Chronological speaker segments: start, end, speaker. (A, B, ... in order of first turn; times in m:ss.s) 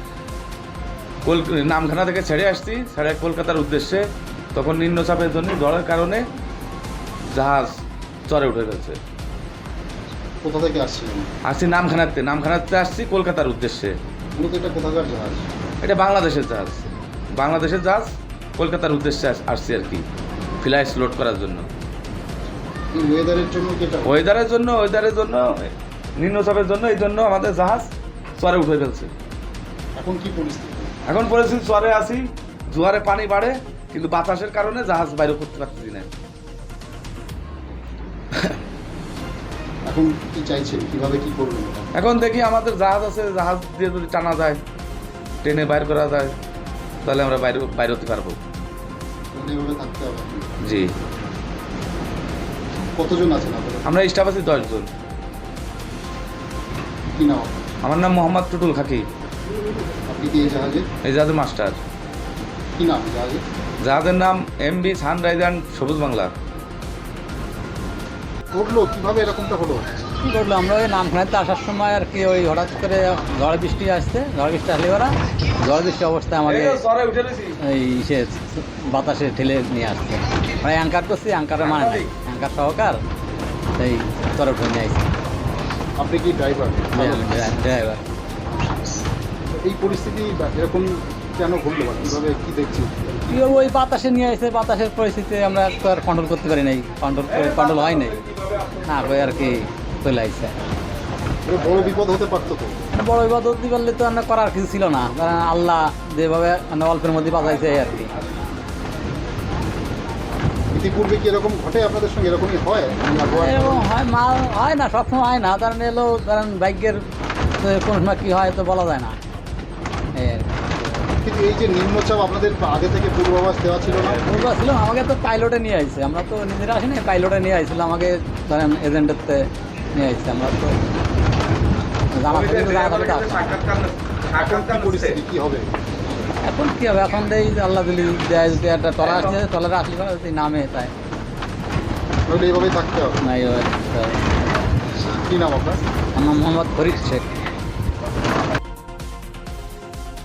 0:01.2-0:06.3 A
0:07.3-0:07.8 A
0:08.3-0:09.0 A
0:10.4-0:11.3 B
0:11.5-0:14.0 A
0:14.4-0:15.5 B
0:15.8-0:20.0 A
0:20.6-0:21.7 A
0:22.9-0:24.2 B
0:24.1-0:29.1 A
0:30.0-0:30.9 B
0:31.1-0:36.1 A
0:38.3-0:38.6 A
0:39.9-0:41.9 B
0:41.9-0:44.6 A
0:45.4-0:46.4 A
0:47.0-0:48.4 A
0:49.3-0:50.5 B
0:50.6-0:50.9 A
0:53.0-0:53.9 B
0:53.8-0:54.9 A
0:57.1-0:57.6 B
0:57.8-0:59.1 A
1:00.1-1:00.9 B
1:01.0-1:01.8 A
1:02.8-1:03.4 B
1:03.8-1:06.3 A
1:08.5-1:09.9 B
1:10.2-1:16.8 C
1:16.5-1:17.5 A
1:17.6-1:23.0 C
1:21.6-1:22.1 A
1:23.8-1:25.1 C
1:26.0-1:27.5 B
1:26.9-1:28.0 C
1:29.6-1:33.2 B
1:33.3-1:38.2 C
1:37.4-1:38.8 A
1:38.8-1:40.6 C
1:41.4-1:42.8 B
1:43.0-1:48.1 C
1:50.7-1:53.9 B
1:53.1-1:57.0 C
1:57.6-1:59.2 C
2:00.2-2:00.5 C
2:01.2-2:04.3 B
2:04.2-2:10.8 C
2:12.1-2:13.6 C
2:12.3-2:15.2 A
2:14.4-2:15.7 B
2:16.4-2:20.9 C
2:19.0-2:19.3 A
2:22.3-2:23.2 B
2:23.2-2:24.2 C
2:25.0-2:25.8 B
2:26.2-2:27.3 C